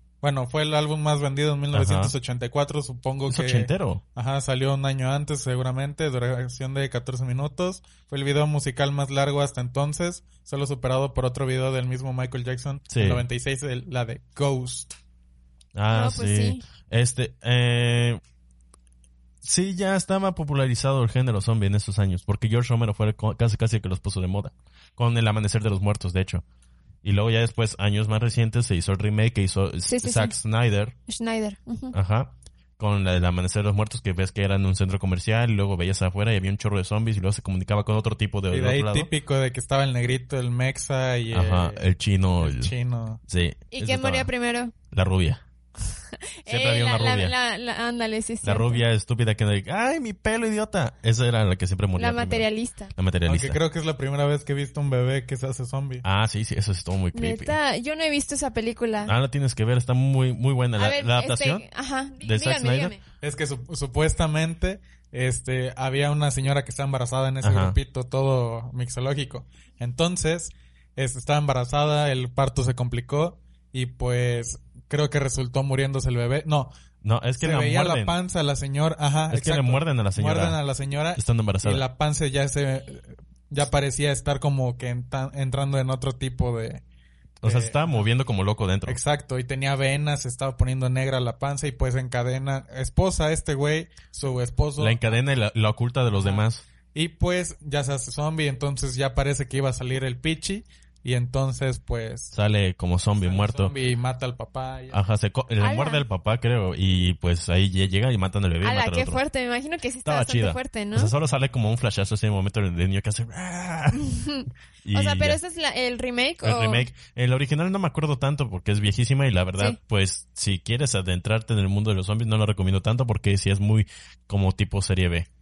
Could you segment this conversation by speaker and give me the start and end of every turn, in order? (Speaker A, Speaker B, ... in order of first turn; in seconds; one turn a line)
Speaker A: 0.2-14.9
Speaker B: 1.7-2.1
Speaker B: 3.3-4.0
Speaker B: 12.9-13.2
Speaker B: 15.7-18.2
Speaker C: 15.9-16.6
Speaker B: 19.4-26.4
Speaker B: 27.0-30.9
Speaker C: 29.9-30.4
Speaker C: 31.1-31.9
Speaker B: 31.9-39.1
Speaker A: 38.5-41.8
Speaker B: 41.3-42.7
Speaker A: 42.4-43.2
Speaker B: 43.3-44.3
Speaker C: 43.7-44.7
Speaker B: 44.9-45.4
Speaker C: 46.4-48.8
Speaker B: 46.5-47.3
Speaker B: 48.4-53.6
Speaker C: 52.0-52.9
Speaker A: 53.2-56.0
Speaker B: 56.0-57.6
Speaker C: 57.1-59.1
Speaker B: 59.0-61.6
Speaker C: 60.8-63.0
Speaker B: 62.2-62.9
Speaker A: 63.2-76.7
Speaker B: 67.4-67.8
Speaker B: 77.0-78.2
Speaker A: 77.4-86.8
Speaker B: 79.3-80.6
Speaker B: 81.2-81.8
Speaker B: 87.4-89.0
Speaker A: 87.4-88.0
Speaker A: 88.8-95.0
Speaker B: 94.8-96.6
Speaker A: 96.1-102.3
Speaker B: 102.3-103.7
Speaker A: 103.2-105.0
Speaker B: 104.9-109.2
Speaker C: 105.6-106.0
Speaker C: 108.6-111.1
Speaker B: 110.0-114.1
Speaker C: 113.9-116.9
Speaker B: 114.8-115.4
Speaker B: 116.4-125.3